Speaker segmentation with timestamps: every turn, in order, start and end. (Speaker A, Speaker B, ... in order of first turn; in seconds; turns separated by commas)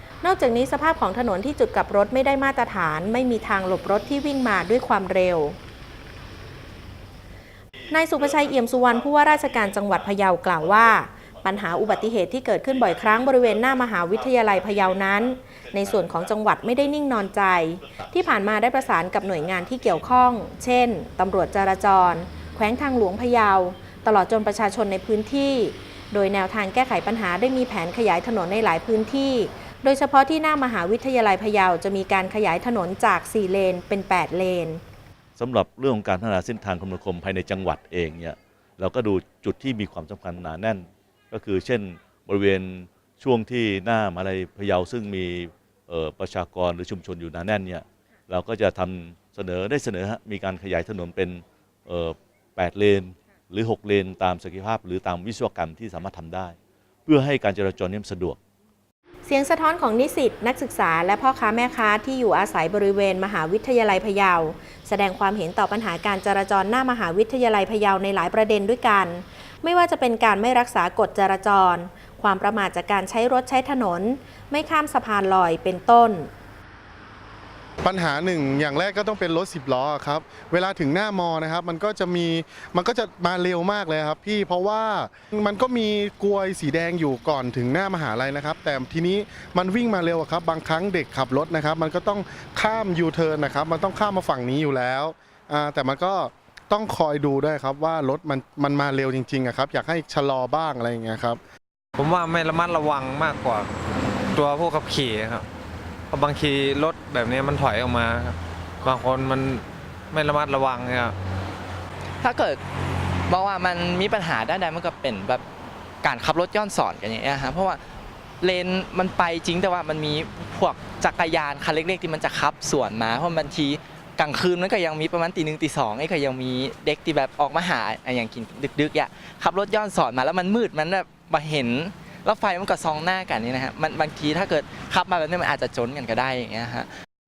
Speaker A: 0.2-5.6, Speaker A: 7.9-34.8, Speaker B: 35.4-58.4, Speaker A: 59.3-76.3, Speaker C: 77.8-101.4, Speaker D: 102.0-103.7, Speaker D: 104.3-105.5, Speaker D: 106.1-111.2, Speaker E: 112.2-112.6, Speaker E: 113.3-115.4, Speaker E: 116.0-117.8, Speaker E: 118.4-136.9